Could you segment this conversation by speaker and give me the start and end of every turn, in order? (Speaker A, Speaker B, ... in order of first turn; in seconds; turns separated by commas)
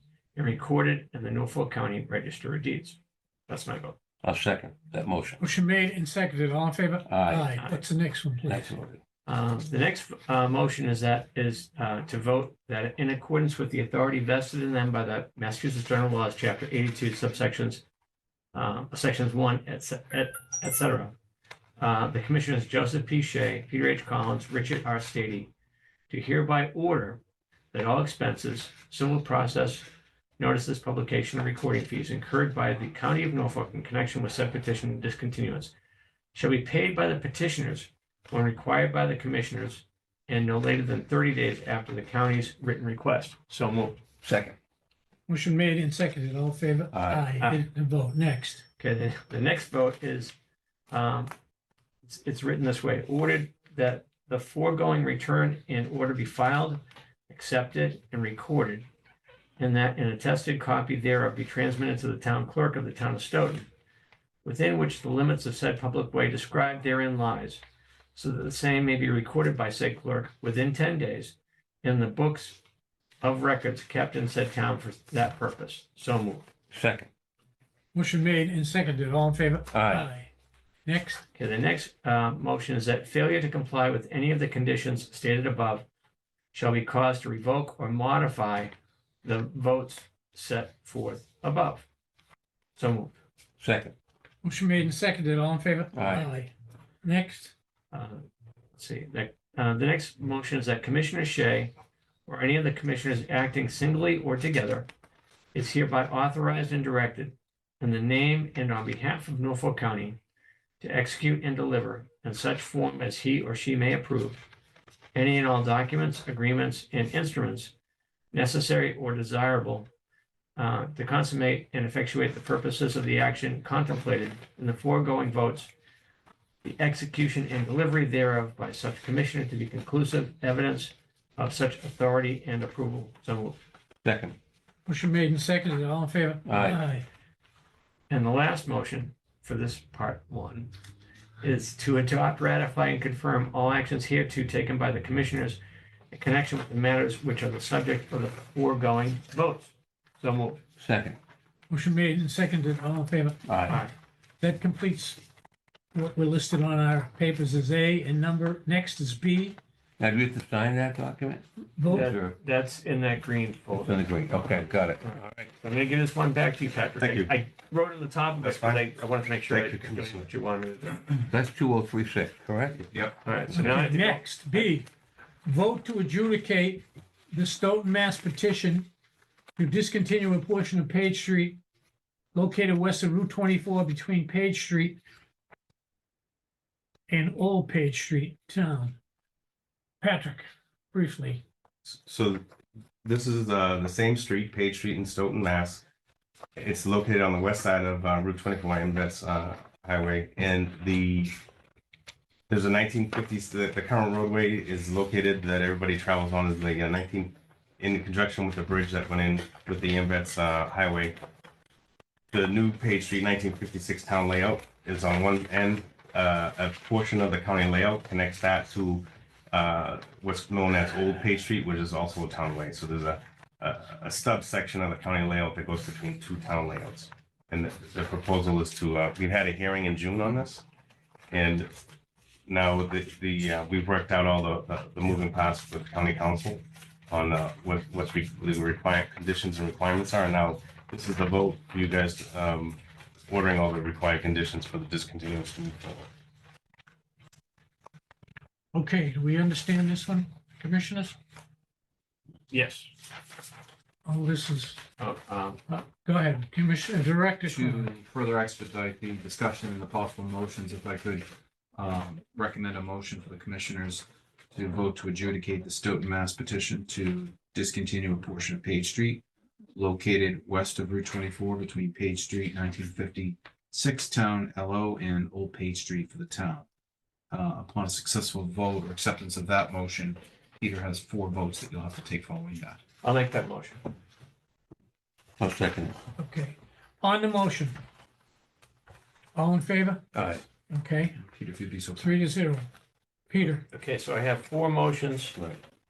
Speaker A: 0.3-4.0, Speaker B: 4.2-5.4, Speaker C: 5.4-8.7, Speaker B: 7.1-7.5, Speaker B: 8.5-9.0, Speaker A: 9.2-17.8, Speaker A: 18.5-21.1, Speaker A: 21.8-25.5, Speaker A: 26.1-27.2, Speaker A: 27.7-29.8, Speaker A: 30.4-35.7, Speaker A: 36.3-44.0, Speaker B: 44.2-44.5, Speaker C: 45.3-48.6, Speaker B: 46.9-47.3, Speaker A: 47.4-47.6, Speaker A: 48.8-50.3, Speaker A: 50.9-51.3, Speaker A: 52.0-58.9, Speaker A: 59.6-63.7, Speaker A: 64.4-67.6, Speaker A: 68.1-72.6, Speaker A: 73.2-76.5, Speaker B: 76.7-77.1, Speaker C: 77.9-80.3, Speaker B: 79.7-80.1, Speaker C: 80.8-81.2, Speaker A: 81.3-85.8, Speaker A: 86.5-91.8, Speaker A: 92.8-93.1, Speaker B: 93.6-93.9, Speaker C: 94.4-96.5, Speaker B: 95.9-96.3, Speaker C: 97.0-97.5, Speaker A: 97.9-101.7, Speaker A: 102.2-104.9, Speaker A: 105.5-110.2, Speaker A: 110.8-114.4, Speaker A: 115.1-117.7, Speaker A: 118.3-119.9, Speaker A: 120.5-125.7, Speaker A: 126.6-133.6, Speaker B: 134.0-134.3, Speaker C: 134.9-137.0, Speaker B: 136.4-136.8, Speaker A: 138.1-140.7, Speaker A: 141.4-145.6, Speaker A: 146.1-150.6, Speaker B: 150.8-151.2, Speaker C: 151.7-153.8, Speaker B: 153.4-153.8, Speaker C: 154.4-155.2, Speaker C: 155.9-159.6, Speaker B: 160.0-162.3, Speaker C: 161.8-162.1, Speaker A: 161.9-164.1, Speaker B: 163.8-165.5, Speaker A: 165.0-171.1, Speaker D: 167.0-167.3, Speaker D: 168.4-168.8, Speaker D: 169.5-170.3, Speaker B: 171.2-172.9, Speaker A: 173.2-174.7, Speaker C: 173.5-174.9, Speaker C: 175.4-178.9, Speaker C: 179.6-181.6, Speaker C: 182.3-185.0, Speaker C: 187.1-189.0, Speaker C: 190.0-191.4, Speaker D: 191.8-192.4, Speaker D: 193.0-195.8, Speaker D: 196.6-201.4, Speaker D: 202.5-211.2, Speaker D: 212.3-230.6, Speaker D: 231.3-231.7, Speaker D: 232.5-246.1, Speaker C: 248.7-251.2, Speaker A: 252.5-252.9, Speaker C: 254.1-254.8, Speaker A: 255.0-255.6, Speaker C: 255.7-257.9, Speaker E: 257.5-269.2, Speaker E: 269.7-276.6, Speaker E: 277.3-282.8, Speaker A: 283.0-283.8, Speaker B: 285.4-285.9, Speaker C: 286.2-287.8, Speaker C: 289.3-290.0, Speaker B: 290.1-290.4, Speaker C: 290.7-291.1, Speaker E: 291.2-292.3, Speaker C: 292.0-292.7, Speaker C: 293.3-293.6, Speaker A: 293.7-295.4